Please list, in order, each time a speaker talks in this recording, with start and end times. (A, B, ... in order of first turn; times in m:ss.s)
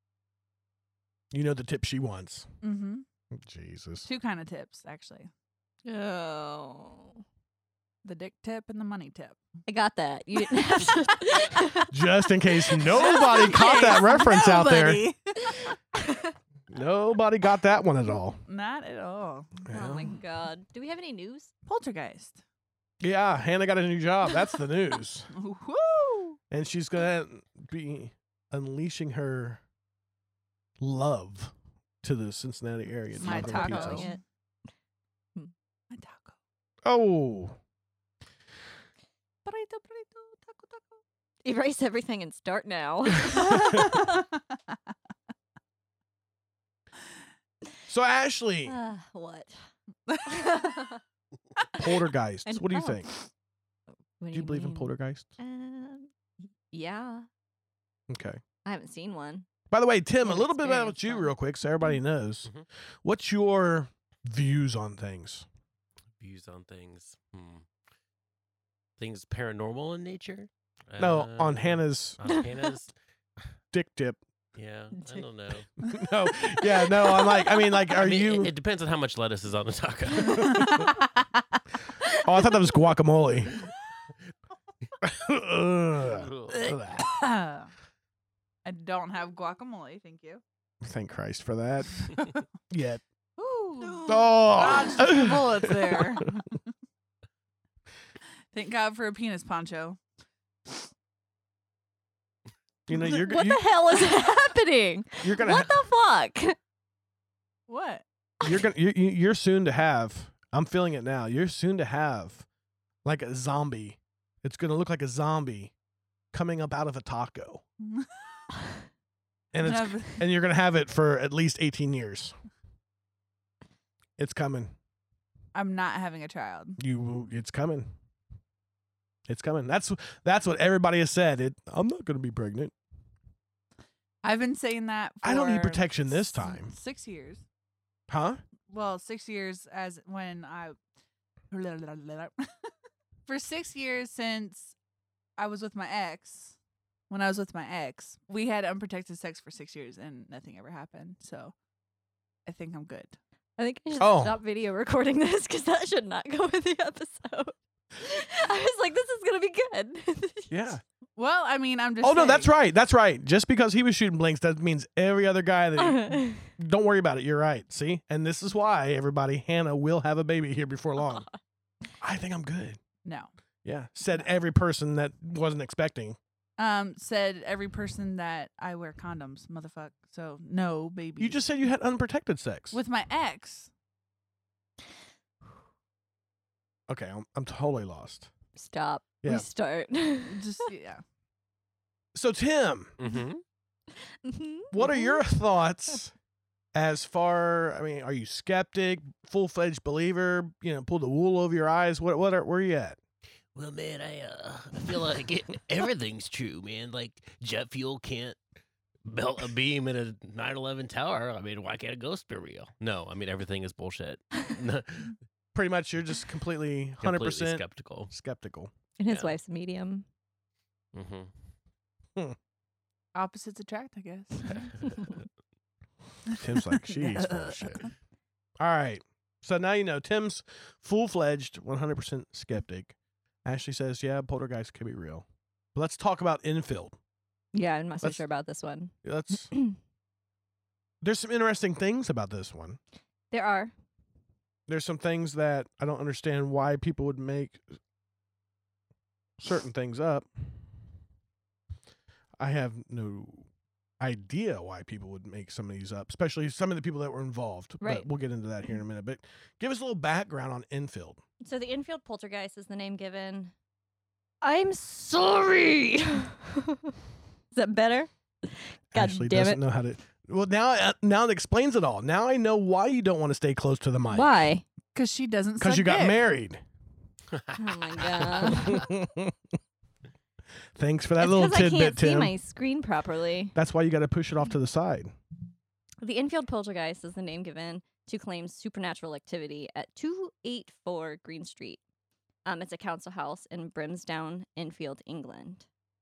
0:01.3-0:02.5 A
0:02.6-0:03.0 B
0:03.3-0:04.1 A
0:04.0-0:05.3 B
0:05.8-0:07.2 C
0:08.0-0:09.4 B
0:09.7-0:11.9 C
0:10.6-0:11.0 B
0:11.9-0:15.0 A
0:12.6-0:13.4 C
0:12.9-0:15.8 B
0:16.7-0:18.4 A
0:18.5-0:19.7 B
0:19.7-0:20.2 A
0:19.7-0:21.5 C
0:21.7-0:22.4 B
0:23.0-0:25.3 A
0:25.3-0:26.4 B
0:26.5-0:29.6 A
0:30.8-0:34.1 A
0:33.2-0:34.2 B
0:33.2-0:34.2 C
0:35.9-0:36.4 B
0:36.8-0:37.6 A
0:39.5-0:40.5 C
0:39.5-0:40.8 B
0:41.4-0:44.1 C
0:43.3-0:43.9 A
0:43.8-0:44.8 B
0:47.9-0:48.8 A
0:48.7-0:49.6 C
0:50.1-0:50.6 B
0:50.3-0:51.0 C
0:51.8-0:53.1 A
0:52.5-0:53.3 C
0:54.2-0:56.1 C
0:54.3-0:55.3 A
0:56.7-0:57.3 C
0:58.1-0:58.4 A
0:58.6-0:59.5 C
0:59.7-1:02.5 A
1:00.2-1:01.3 C
1:03.0-1:05.5 A
1:06.2-1:07.7 D
1:09.0-1:12.9 D
1:11.0-1:12.2 A
1:13.7-1:14.2 A
1:14.6-1:15.7 D
1:15.0-1:15.2 C
1:15.8-1:18.5 A
1:16.5-1:17.5 C
1:18.0-1:20.8 D
1:20.3-1:21.4 B
1:22.2-1:23.6 A
1:25.0-1:27.2 A
1:26.0-1:26.6 D
1:27.0-1:27.7 B
1:28.6-1:30.4 B
1:30.8-1:33.0 A
1:33.4-1:36.6 B
1:34.0-1:36.3 A
1:38.5-1:40.0 B
1:42.9-1:43.7 A
1:43.0-1:46.6 C
1:45.2-1:45.8 A
1:47.7-1:48.0 B
1:48.4-1:52.5 A
1:53.0-1:55.7 A
1:56.3-1:57.6 A
1:57.8-1:58.4 B
1:59.5-2:02.4 A
1:59.6-2:00.2 B
2:04.2-2:04.7 A
2:05.5-2:06.8 B
2:06.8-2:07.9 A
2:09.3-2:12.7 A
2:14.2-2:17.4 B
2:15.2-2:16.7 A
2:18.1-2:18.4 A
2:18.7-2:20.8 B
2:21.5-2:22.7 B
2:23.3-2:24.8 B
2:25.4-2:26.6 B
2:27.1-2:31.5 B
2:32.5-2:33.2 B
2:33.6-2:40.7 C
2:34.0-2:34.4 A
2:40.5-2:40.8 A
2:41.2-2:42.5 B
2:42.0-2:51.3 A
2:45.8-2:46.4 C
2:51.0-2:51.4 C
2:52.0-2:52.8 A
2:53.0-2:53.3 B
2:53.6-2:56.2 A
2:56.6-3:01.4 B
3:01.2-3:02.8 A
3:02.7-3:03.7 B
3:06.9-3:08.3 A
3:08.6-3:10.5 C
3:10.3-3:11.0 B
3:12.1-3:13.0 A
3:13.0-3:13.4 D
3:14.2-3:15.2 C
3:14.7-3:16.1 A
3:16.8-3:23.0 A
3:23.5-3:28.4 D
3:29.0-3:35.2 D
3:35.5-3:38.7 A
3:37.0-3:38.1 D
3:39.0-3:40.0 C
3:39.1-3:39.4 D
3:40.9-3:41.3 D
3:43.2-3:44.8 B
3:44.4-3:45.2 D
3:46.3-3:47.9 A
3:46.9-3:47.6 B
3:48.6-3:57.0 A
3:57.5-3:58.9 C
3:59.0-3:59.5 A
3:59.5-3:59.8 C
4:01.0-4:02.8 A
4:03.3-4:03.7 C
4:04.7-4:07.6 A
4:09.4-4:10.5 A
4:12.4-4:13.5 A
4:14.0-4:21.2 A
4:17.8-4:18.1 C
4:21.4-4:23.5 C
4:24.4-4:26.9 C
4:27.5-4:29.6 C
4:28.9-4:34.3 A
4:34.1-4:34.6 C
4:34.9-4:36.2 B
4:35.6-4:36.6 A
4:37.6-4:38.9 C
4:38.1-4:38.6 D
4:38.3-4:39.3 A
4:40.8-4:42.3 A
4:41.2-4:43.5 C
4:43.6-4:45.1 A
4:46.0-4:51.8 C
4:52.5-4:55.7 C